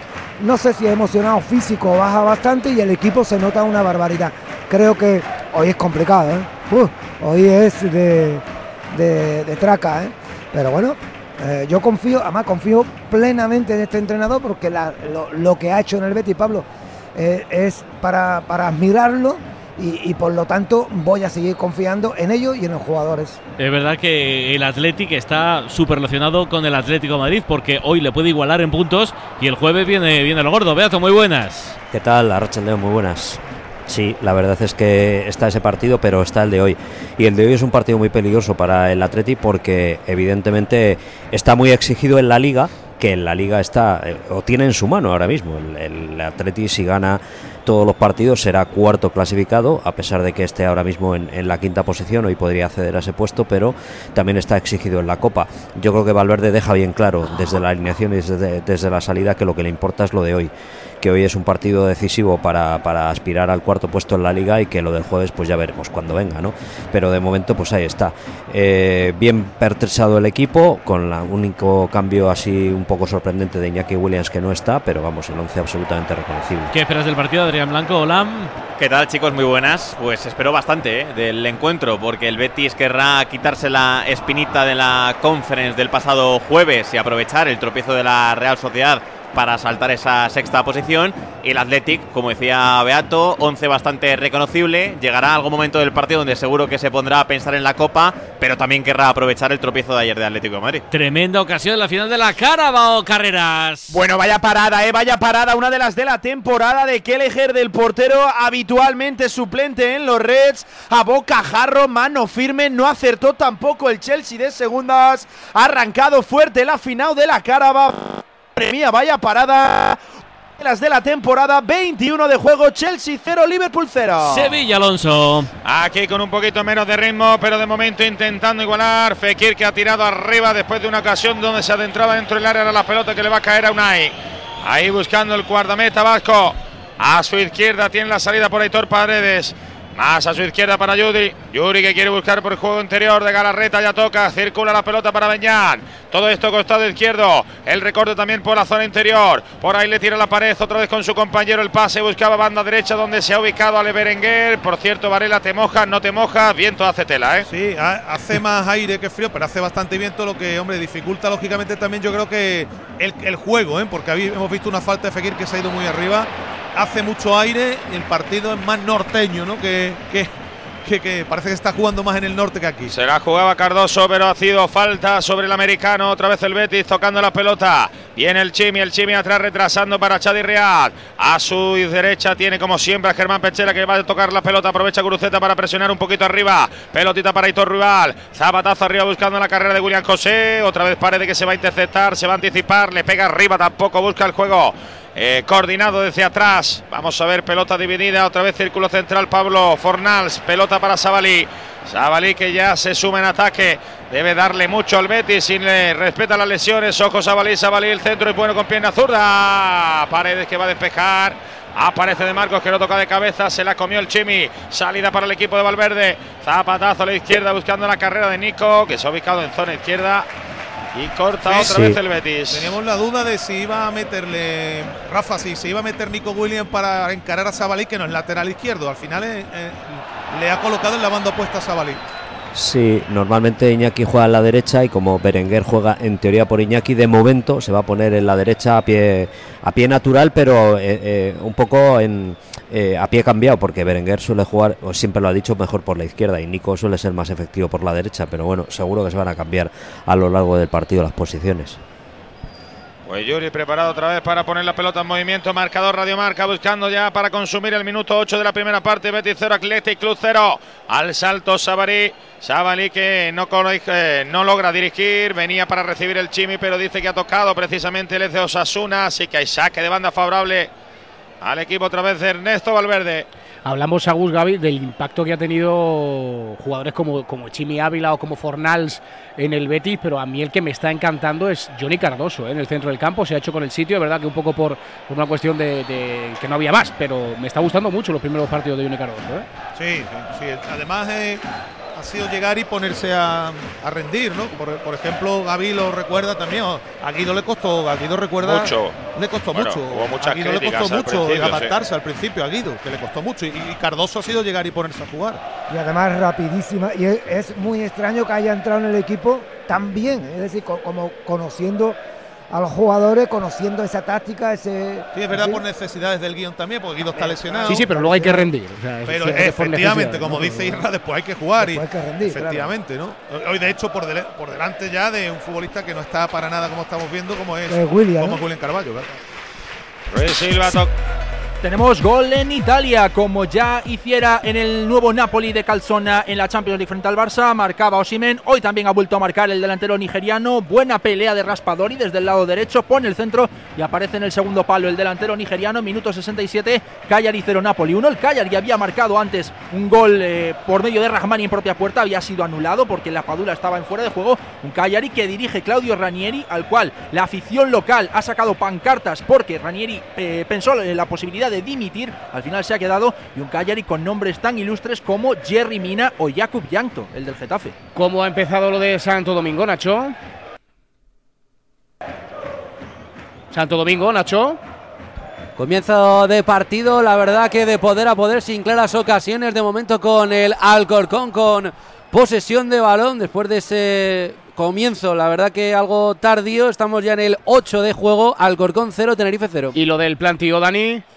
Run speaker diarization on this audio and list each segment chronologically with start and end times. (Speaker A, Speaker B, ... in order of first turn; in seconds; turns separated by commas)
Speaker A: 0.4-23.4, Speaker B: 23.6-31.8, Speaker C: 31.9-76.7, Speaker B: 76.7-78.5, Speaker D: 78.8-100.8, Speaker B: 100.9-103.9, Speaker E: 103.9-120.0, Speaker E: 120.6-124.6, Speaker B: 124.2-125.5, Speaker F: 125.7-157.5, Speaker G: 157.5-170.3, Speaker G: 170.8-172.9, Speaker F: 172.9-220.3, Speaker F: 220.9-222.8, Speaker G: 221.4-221.8, Speaker C: 221.6-222.0, Speaker G: 222.5-232.0, Speaker C: 232.5-251.8, Speaker F: 253.1-270.7, Speaker F: 271.4-273.3, Speaker H: 273.6-289.5, Speaker G: 289.8-291.4, Speaker G: 291.9-305.4, Speaker F: 298.4-299.0, Speaker F: 299.5-301.8, Speaker A: 305.7-312.0, Speaker A: 312.5-315.6, Speaker G: 315.1-317.9, Speaker A: 317.1-318.5, Speaker H: 317.7-320.5, Speaker G: 319.1-329.2, Speaker A: 320.2-320.8, Speaker A: 321.6-322.7, Speaker A: 327.7-328.4, Speaker F: 330.1-330.9, Speaker I: 331.6-367.8, Speaker H: 367.9-370.1, Speaker H: 373.5-374.6, Speaker J: 375.6-389.8, Speaker H: 389.8-391.0